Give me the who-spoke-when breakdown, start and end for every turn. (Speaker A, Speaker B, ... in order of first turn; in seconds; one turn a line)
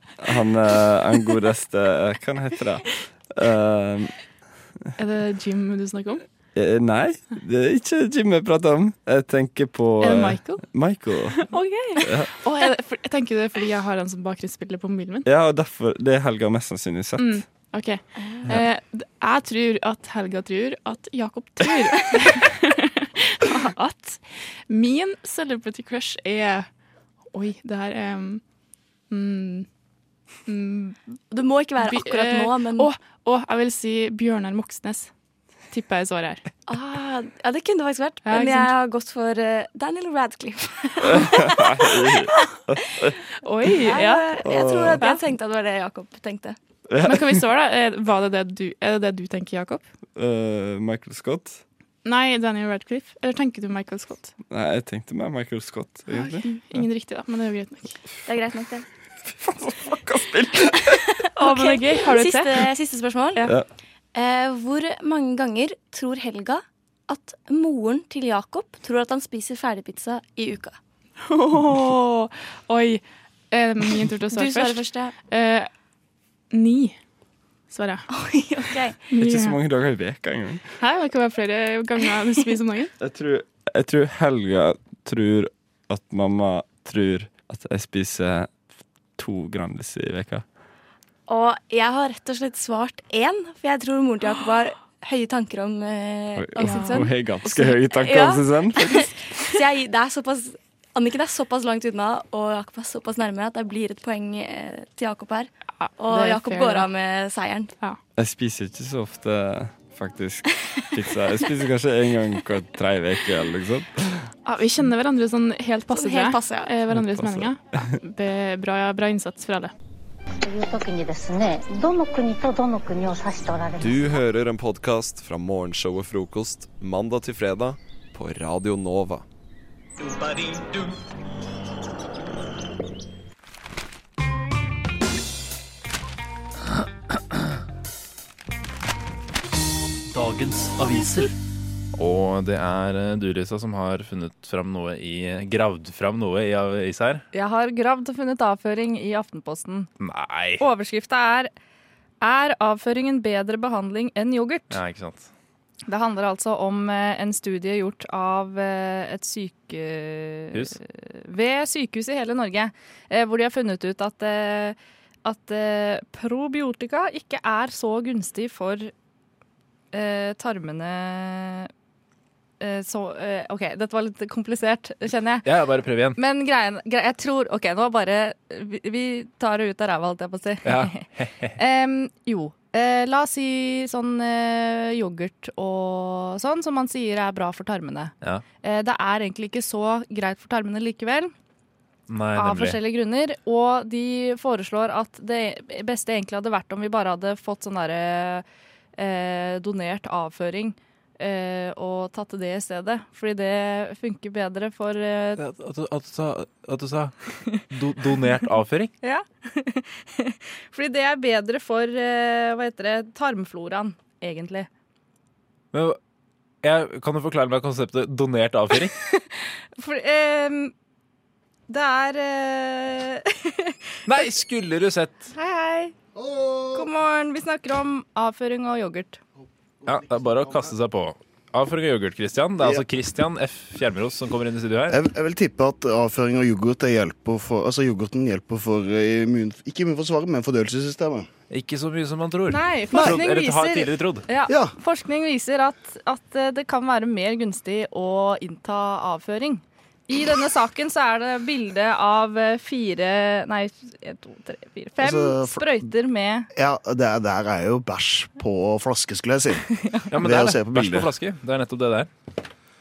Speaker A: 0.2-4.1
Speaker B: 5.0-6.2
Speaker A: 6.5-11.4
Speaker B: 10.0-10.7
Speaker B: 11.3-15.2
Speaker A: 12.0-12.3
Speaker A: 15.2-17.4
Speaker B: 17.2-26.7
Speaker C: 18.2-18.5
Speaker B: 27.3-28.4
Speaker B: 29.1-29.7
Speaker B: 30.5-31.0
Speaker C: 31.3-32.9
Speaker B: 31.8-35.1
Speaker B: 35.7-36.4
Speaker C: 36.7-42.2
Speaker B: 38.2-38.7
Speaker A: 41.0-43.1
Speaker B: 43.4-45.2
Speaker C: 43.8-46.6
Speaker A: 44.4-45.0
Speaker A: 46.9-47.4
Speaker B: 47.0-49.8
Speaker A: 50.1-51.6
Speaker B: 52.0-54.3
Speaker A: 54.5-56.8
Speaker B: 56.1-58.0
Speaker C: 58.2-58.9
Speaker A: 59.3-61.0
Speaker C: 60.9-63.5
Speaker B: 61.4-62.7
Speaker C: 64.1-70.8
Speaker B: 71.2-75.7
Speaker C: 74.3-75.1
Speaker B: 76.5-77.0
Speaker B: 77.7-78.0
Speaker C: 78.1-79.0
Speaker B: 79.1-79.6
Speaker A: 79.2-80.7
Speaker B: 80.8-82.9
Speaker A: 83.0-88.5
Speaker A: 89.2-90.4
Speaker C: 91.3-107.7
Speaker A: 96.3-99.2
Speaker B: 96.6-97.1
Speaker B: 105.8-106.9
Speaker A: 108.2-114.2
Speaker B: 114.5-119.7
Speaker C: 115.9-116.7
Speaker A: 116.9-117.9
Speaker D: 120.4-124.1
Speaker E: 123.8-129.2
Speaker F: 140.1-141.3
Speaker F: 141.9-147.2
Speaker G: 147.3-149.9
Speaker F: 150.0-150.6
Speaker G: 150.6-151.5
Speaker G: 152.2-154.8
Speaker F: 154.7-155.3
Speaker G: 155.9-168.9
Speaker G: 169.9-171.7
Speaker G: 172.6-175.5
Speaker F: 175.4-176.2
Speaker G: 176.2-191.3
Speaker F: 180.6-181.5
Speaker F: 192.1-192.8
Speaker G: 192.3-198.4
Speaker G: 198.9-205.4
Speaker F: 205.4-207.1
Speaker F: 207.7-208.9
Speaker G: 209.0-214.7
Speaker F: 215.7-216.0
Speaker F: 216.6-218.9
Speaker G: 219.7-220.7
Speaker G: 221.7-224.1
Speaker F: 224.1-225.3
Speaker G: 225.3-225.9
Speaker H: 226.2-226.8
Speaker G: 226.7-229.2
Speaker F: 229.8-235.0
Speaker H: 232.6-232.8
Speaker H: 234.9-241.3
Speaker F: 241.5-244.3
Speaker G: 242.5-256.5
Speaker H: 244.5-244.7
Speaker H: 255.0-255.9
Speaker H: 256.5-261.1
Speaker G: 259.8-260.1
Speaker F: 260.1-262.1